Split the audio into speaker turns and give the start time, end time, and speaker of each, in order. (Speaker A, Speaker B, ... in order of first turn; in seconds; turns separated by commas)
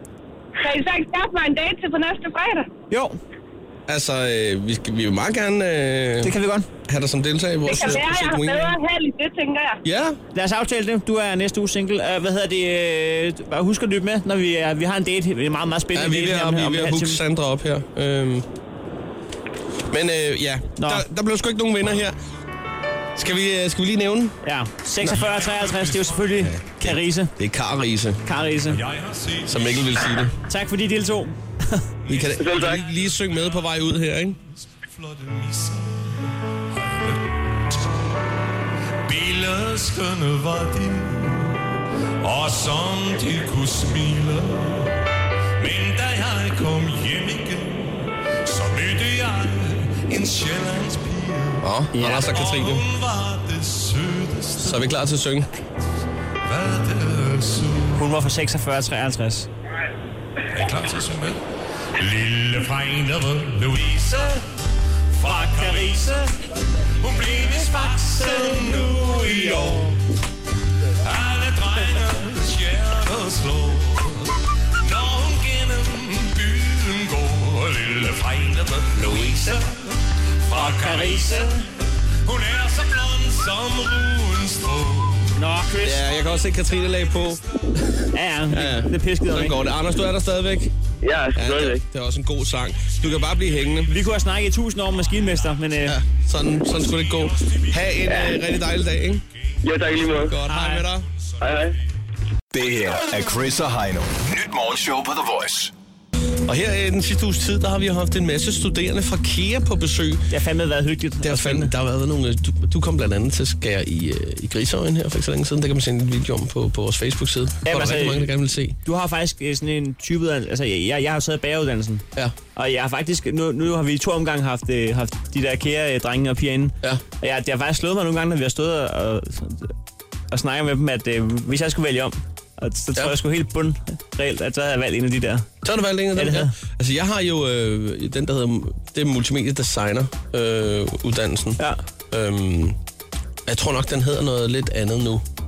Speaker A: 0.6-2.7, Speaker B: 2.9-3.2, Speaker C: 3.9-6.3, Speaker B: 6.2-6.7, Speaker C: 6.9-8.8, Speaker A: 7.6-9.8, Speaker C: 9.8-10.2, Speaker B: 10.3-17.2, Speaker C: 15.9-18.5, Speaker C: 19.9-22.2, Speaker B: 20.8-21.1, Speaker C: 23.2-24.4, Speaker B: 24.4-27.3, Speaker D: 25.1-26.4, Speaker C: 26.4-28.2, Speaker B: 28.3-28.8, Speaker D: 28.7-30.3, Speaker C: 29.5-30.3, Speaker B: 30.5-31.9, Speaker D: 32.1-37.8, Speaker C: 32.1-34.4, Speaker E: 32.4-32.8, Speaker D: 39.1-41.6, Speaker D: 42.2-45.0, Speaker D: 45.6-54.9, Speaker C: 51.6-52.8, Speaker B: 51.9-52.3, Speaker C: 54.6-55.5, Speaker D: 56.4-58.1, Speaker B: 58.0-59.5, Speaker D: 60.5-61.4, Speaker D: 62.0-64.5, Speaker D: 65.2-66.2, Speaker B: 65.2-66.3, Speaker D: 67.0-70.0, Speaker D: 71.0-80.0, Speaker C: 79.0-79.5, Speaker D: 80.5-81.5, Speaker B: 80.5-81.6, Speaker D: 82.3-85.4, Speaker B: 85.3-86.1, Speaker C: 85.8-90.7, Speaker D: 86.1-87.3, Speaker B: 88.1-89.6, Speaker E: 91.0-91.8, Speaker C: 91.4-93.9, Speaker D: 92.8-94.2, Speaker B: 93.9-96.0, Speaker D: 94.8-95.7, Speaker C: 95.8-99.2, Speaker D: 96.5-99.2, Speaker E: 98.1-98.4, Speaker E: 99.6-100.4, Speaker D: 99.8-100.3, Speaker C: 100.1-101.1, Speaker B: 100.5-100.9, Speaker D: 100.9-101.8, Speaker E: 101.4-101.8, Speaker F: 102.5-105.7, Speaker C: 106.5-110.3, Speaker B: 110.3-111.7, Speaker C: 111.2-118.8, Speaker B: 117.6-118.3, Speaker B: 118.8-129.7, Speaker B: 130.3-135.5, Speaker C: 135.6-142.8, Speaker B: 136.2-136.5, Speaker C: 143.5-145.2